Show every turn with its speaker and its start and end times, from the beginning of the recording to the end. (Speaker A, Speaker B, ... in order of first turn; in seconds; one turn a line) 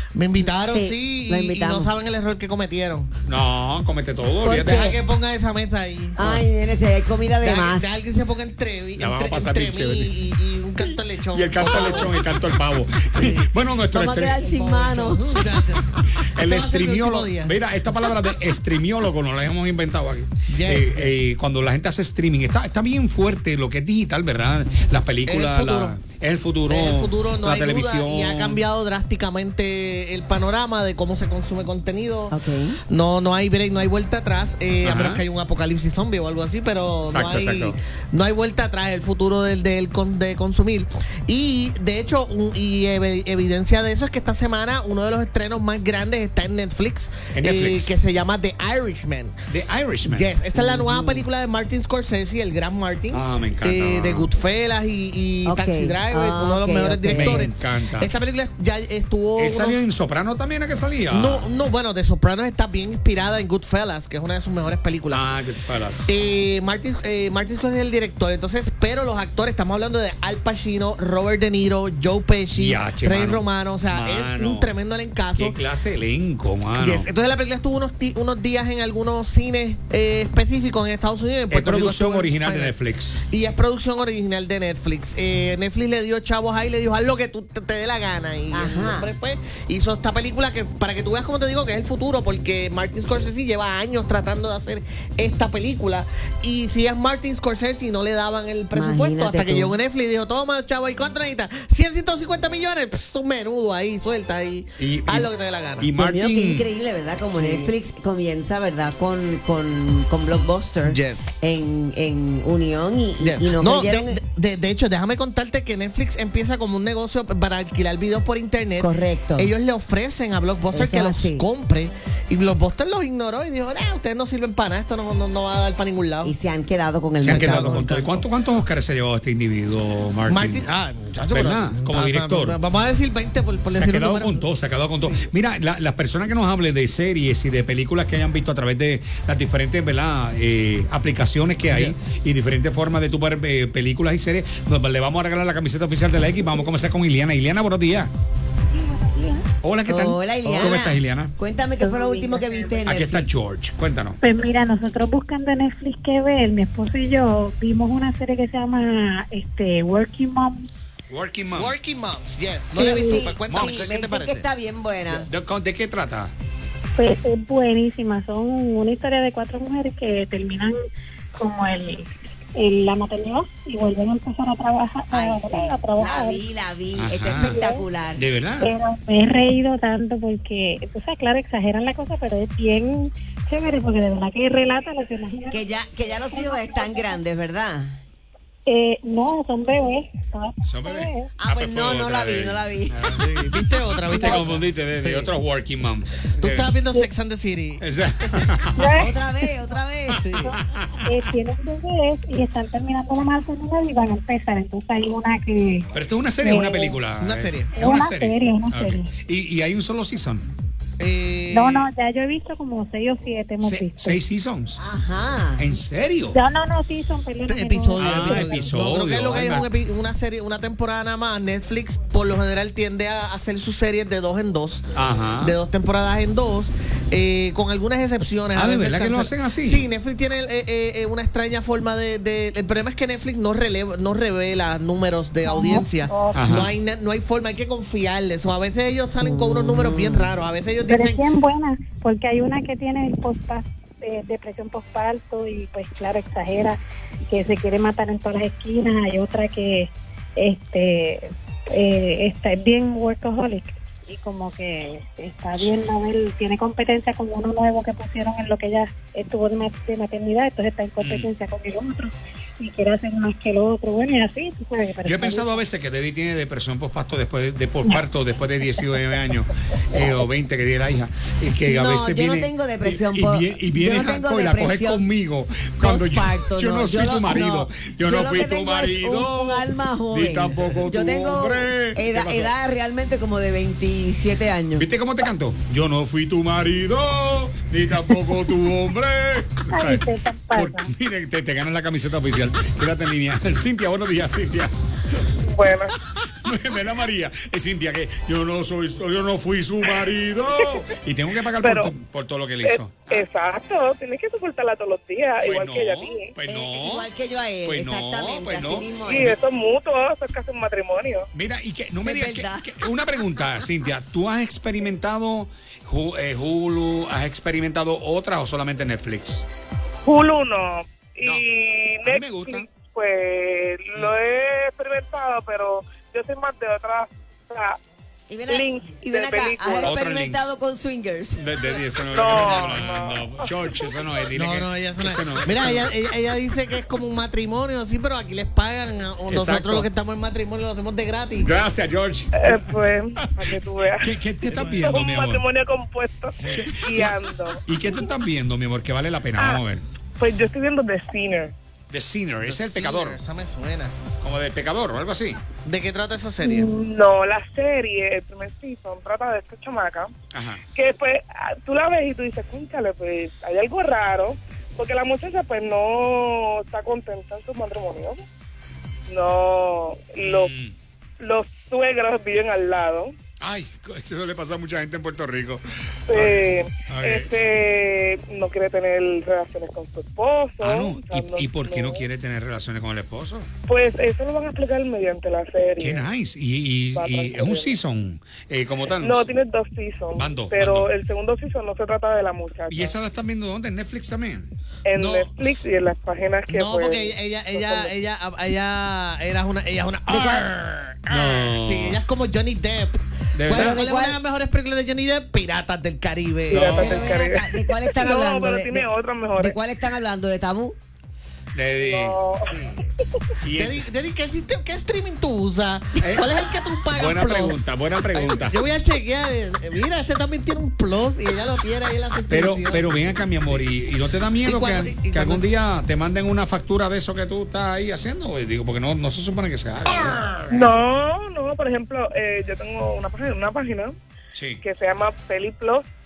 Speaker A: 0.1-3.1
Speaker B: 0.5-1.9
Speaker C: 3.2-4.8
Speaker B: 4.4-5.0
Speaker A: 4.6-6.4
Speaker B: 6.1-8.3
Speaker A: 7.4-12.2
Speaker C: 9.0-10.1
Speaker C: 10.8-14.5
Speaker B: 11.7-12.0
Speaker A: 13.1-13.5
Speaker B: 13.9-15.3
Speaker A: 14.4-17.5
Speaker C: 16.1-28.6
Speaker A: 20.5-21.1
Speaker A: 25.2-26.0
Speaker A: 26.7-32.4
Speaker B: 32.3-32.8
Speaker A: 32.9-49.3
Speaker C: 34.8-35.2
Speaker C: 37.1-37.8
Speaker C: 47.3-47.9
Speaker C: 49.5-50.3
Speaker A: 50.0-59.8
Speaker B: 50.5-51.2
Speaker C: 53.1-54.3
Speaker B: 55.4-57.5
Speaker C: 57.1-58.1
Speaker C: 59.4-61.5
Speaker A: 61.1-65.3
Speaker C: 65.1-66.1
Speaker A: 66.1-75.5
Speaker C: 72.5-74.7
Speaker C: 75.4-77.1
Speaker A: 76.7-82.7
Speaker C: 81.5-83.2
Speaker A: 83.3-105.9
Speaker B: 88.5-89.1
Speaker B: 98.7-99.8
Speaker C: 104.8-106.6
Speaker B: 106.0-114.2
Speaker A: 107.3-107.7
Speaker A: 110.8-111.3
Speaker A: 113.2-126.3
Speaker B: 118.8-119.5
Speaker B: 120.7-121.5
Speaker B: 126.2-127.8
Speaker C: 127.2-130.6
Speaker A: 127.2-128.2
Speaker A: 130.3-134.4
Speaker C: 131.3-132.6
Speaker C: 133.7-148.1
Speaker A: 141.7-141.9
Speaker D: 148.7-149.4
Speaker C: 149.6-151.3
Speaker B: 149.9-153.3
Speaker D: 151.8-152.9
Speaker C: 152.8-154.2
Speaker D: 154.2-160.7
Speaker C: 161.1-161.7
Speaker A: 161.5-164.4
Speaker B: 162.8-165.3
Speaker D: 162.9-163.3
Speaker C: 163.5-163.9
Speaker C: 165.3-166.3
Speaker D: 166.9-170.8
Speaker D: 171.3-176.4
Speaker B: 175.1-178.2
Speaker C: 176.9-177.6
Speaker D: 177.4-177.8
Speaker C: 178.2-178.7
Speaker D: 178.6-187.2
Speaker B: 185.5-188.0
Speaker D: 188.7-191.3
Speaker C: 190.6-193.4
Speaker B: 191.3-193.0
Speaker A: 193.0-195.3
Speaker C: 194.1-196.7
Speaker D: 194.1-194.4
Speaker A: 196.4-198.5
Speaker C: 197.8-198.9
Speaker D: 198.8-199.6
Speaker B: 198.9-200.2
Speaker A: 200.2-200.6
Speaker D: 200.4-205.9
Speaker C: 200.5-200.8
Speaker C: 205.9-210.4
Speaker D: 206.4-207.0
Speaker A: 207.2-207.8
Speaker D: 207.7-209.1
Speaker A: 211.0-211.9
Speaker D: 211.5-214.2
Speaker C: 213.6-214.8
Speaker B: 214.8-215.6
Speaker C: 215.6-216.4
Speaker D: 216.3-218.7
Speaker A: 217.5-224.8
Speaker C: 218.0-219.7
Speaker C: 224.9-225.5
Speaker A: 225.4-241.2
Speaker C: 228.5-229.9
Speaker D: 235.4-236.4
Speaker C: 236.3-236.7
Speaker B: 239.2-240.3
Speaker D: 240.8-265.6
Speaker C: 261.0-261.3
Speaker C: 265.0-282.5
Speaker B: 271.6-275.1
Speaker B: 275.8-284.9
Speaker C: 284.8-295.3
Speaker D: 289.7-290.9
Speaker E: 295.4-295.9
Speaker C: 296.4-303.3
Speaker E: 301.6-301.9
Speaker E: 302.6-306.3
Speaker C: 305.4-307.1
Speaker B: 306.4-309.4
Speaker C: 307.6-309.3
Speaker E: 309.0-311.3
Speaker C: 311.3-319.4
Speaker B: 312.0-312.7
Speaker E: 320.0-327.8
Speaker C: 322.0-322.7
Speaker B: 328.3-331.4
Speaker E: 328.5-329.9
Speaker C: 329.8-330.5
Speaker C: 331.3-335.9
Speaker E: 332.1-333.8
Speaker A: 334.3-341.5
Speaker C: 339.3-339.9
Speaker C: 341.4-342.5
Speaker E: 342.3-344.1
Speaker C: 344.0-345.4
Speaker A: 344.4-345.0
Speaker E: 344.6-347.6
Speaker C: 346.4-347.1
Speaker C: 347.6-349.9
Speaker E: 350.2-351.5
Speaker C: 351.9-353.2
Speaker A: 352.4-353.9
Speaker C: 354.2-355.4
Speaker A: 355.6-356.7
Speaker E: 356.4-360.1
Speaker C: 360.3-360.6
Speaker E: 360.7-368.2
Speaker E: 369.1-370.5
Speaker C: 370.2-370.7
Speaker E: 371.2-373.1
Speaker C: 373.4-377.3
Speaker E: 376.1-382.1
Speaker C: 380.6-383.5
Speaker E: 383.7-386.1
Speaker C: 385.8-389.3
Speaker E: 386.9-387.8
Speaker E: 388.9-392.9
Speaker C: 390.1-390.9
Speaker C: 392.7-394.5
Speaker E: 394.8-397.9
Speaker A: 394.9-395.3
Speaker A: 396.5-406.9
Speaker B: 400.1-400.5
Speaker C: 401.1-402.0
Speaker C: 403.3-403.8
Speaker B: 403.5-404.2
Speaker E: 406.5-409.6
Speaker C: 406.5-407.1
Speaker B: 406.7-410.8
Speaker C: 411.5-412.2
Speaker E: 411.8-412.4
Speaker A: 412.5-412.9
Speaker C: 413.4-413.8
Speaker A: 413.5-422.9
Speaker C: 416.0-416.2
Speaker C: 416.9-418.6
Speaker C: 422.3-430.2
Speaker A: 424.4-425.4
Speaker A: 430.0-430.5
Speaker E: 430.5-433.9
Speaker C: 434.3-434.6
Speaker E: 434.6-435.9